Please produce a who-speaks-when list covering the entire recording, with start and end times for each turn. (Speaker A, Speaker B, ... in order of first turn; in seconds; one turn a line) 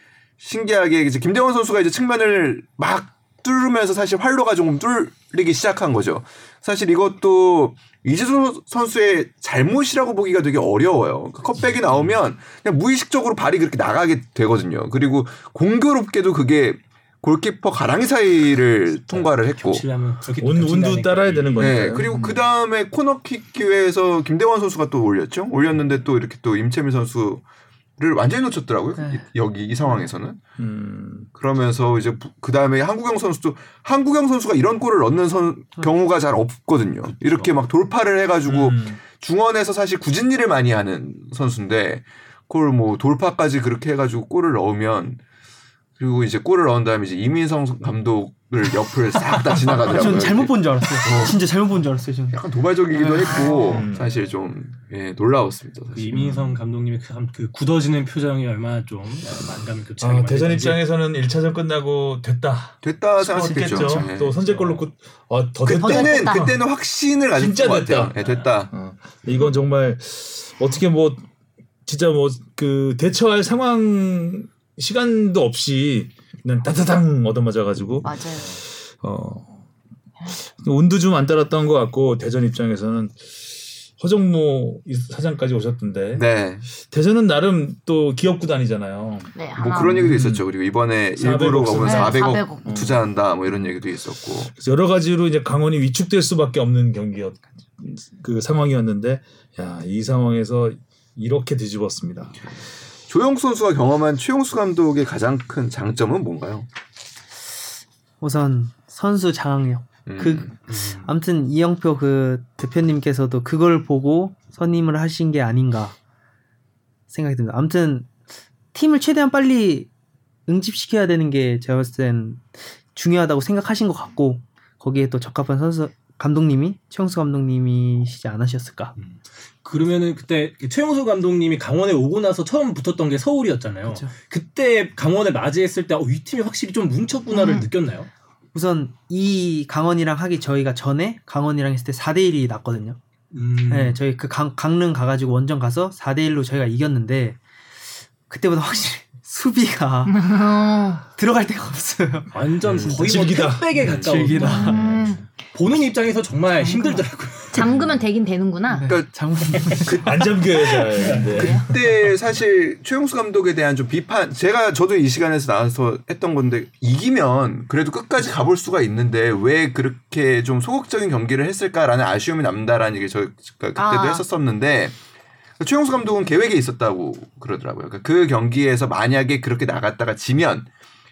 Speaker A: 0.4-19.9
Speaker B: 19.1-22.0
Speaker C: 20.4-22.1
Speaker A: 21.6-27.4
Speaker A: 28.0-30.4
Speaker D: 29.0-29.2
Speaker C: 30.6-31.3
Speaker A: 31.4-45.2
Speaker B: 37.2-37.5
Speaker C: 38.5-39.0
Speaker A: 46.0-51.4
Speaker B: 49.5-49.8
Speaker D: 49.9-52.4
Speaker A: 52.3-56.1
Speaker D: 52.9-53.9
Speaker C: 53.7-54.1
Speaker B: 55.9-60.8
Speaker C: 56.1-56.6
Speaker C: 60.0-66.6
Speaker A: 62.8-64.4
Speaker B: 64.5-64.8
Speaker E: 65.7-66.5
Speaker A: 65.7-68.7
Speaker C: 67.4-68.1
Speaker C: 68.7-71.2
Speaker C: 71.9-79.6
Speaker E: 78.0-78.6
Speaker C: 80.3-86.2
Speaker A: 86.1-86.6
Speaker C: 86.9-90.5
Speaker E: 89.3-90.1
Speaker A: 89.6-94.5
Speaker C: 91.2-93.1
Speaker E: 91.8-92.7
Speaker C: 94.5-102.4
Speaker A: 103.1-106.7
Speaker D: 108.2-116.0
Speaker A: 110.1-110.6
Speaker B: 110.7-111.1
Speaker D: 117.1-118.1
Speaker D: 118.7-119.9
Speaker D: 120.5-128.9
Speaker B: 129.0-138.1
Speaker D: 133.8-134.1
Speaker E: 137.3-137.7
Speaker D: 138.5-143.0
Speaker B: 143.3-144.0
Speaker D: 143.7-147.4
Speaker D: 148.3-150.3
Speaker E: 150.1-151.0
Speaker D: 151.1-152.9
Speaker B: 152.3-154.8
Speaker C: 152.8-155.2
Speaker A: 153.7-154.3
Speaker D: 153.9-154.8
Speaker E: 154.4-155.2
Speaker B: 155.5-157.7
Speaker D: 156.7-157.0
Speaker E: 157.5-158.9
Speaker C: 157.6-157.9
Speaker D: 158.7-160.4
Speaker B: 159.5-159.8
Speaker A: 159.8-160.2
Speaker C: 160.0-161.9
Speaker B: 160.9-161.6
Speaker E: 161.1-161.6
Speaker A: 161.3-174.9
Speaker E: 173.8-174.2
Speaker A: 175.6-180.7